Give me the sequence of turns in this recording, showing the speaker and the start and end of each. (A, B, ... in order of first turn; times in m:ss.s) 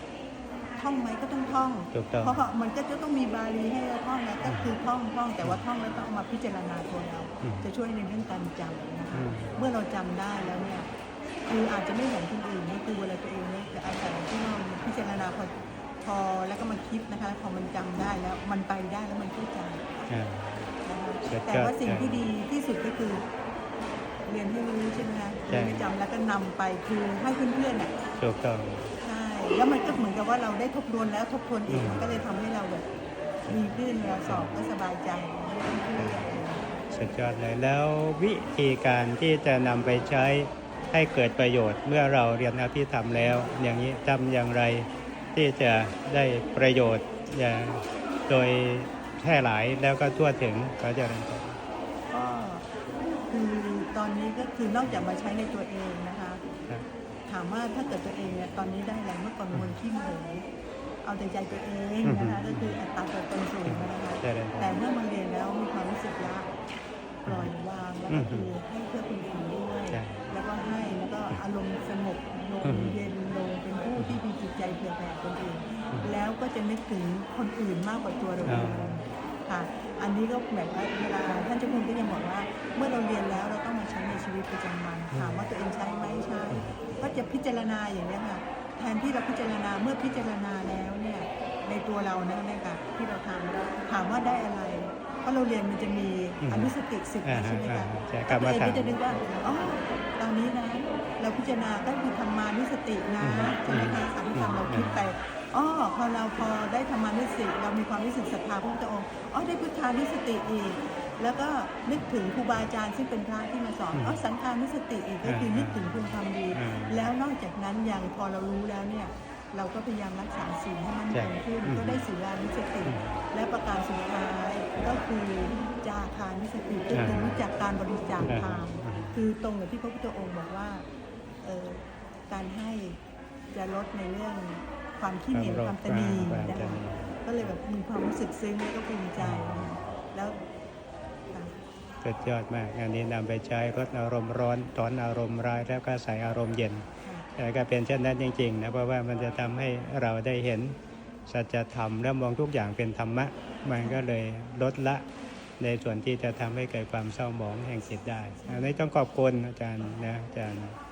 0:00.8-0:10.9 A
0:01.9-0:02.4 B
0:04.4-0:04.7 B
0:07.4-0:07.7 B
0:09.1-0:09.6 B
0:11.4-0:20.1 A
0:20.1-0:20.7 B
0:20.8-0:23.2 A
0:21.2-0:22.3 B
0:24.3-0:27.9 A
0:25.5-0:25.8 B
0:28.2-0:29.0 B
0:29.0-0:32.8 A
0:31.7-0:32.1 B
0:33.5-0:36.8 A
0:34.3-0:34.5 B
0:36.0-0:36.2 B
0:36.9-0:51.6 B
0:52.1-0:52.7 A
0:53.3-0:56.4 A
0:57.3-1:00.4 A
1:01.0-1:06.5 A
1:02.0-1:02.8 B
1:03.6-1:04.8 B
1:07.2-2:10.8 A
1:08.1-1:08.5 B
1:09.9-1:10.3 B
1:12.6-1:13.0 B
1:18.4-1:19.1 B
1:25.1-1:25.5 B
1:26.5-1:26.8 B
1:36.4-1:36.7 B
1:37.2-1:38.9 B
1:43.2-1:45.0 B
1:53.9-1:54.2 B
1:55.2-1:56.0 B
1:56.5-1:57.1 B
2:01.1-2:02.0 B
2:02.8-2:03.2 B
2:06.9-2:07.2 B
2:08.2-2:09.2 B
2:11.4-2:13.0 A
2:13.5-2:20.4 A
2:15.3-2:17.1 B
2:19.2-2:19.7 B
2:22.0-2:26.8 B
2:27.4-2:30.8 B
2:31.3-2:35.0 B
2:33.8-2:34.0 A
2:35.6-2:40.8 B
2:38.4-2:38.8 A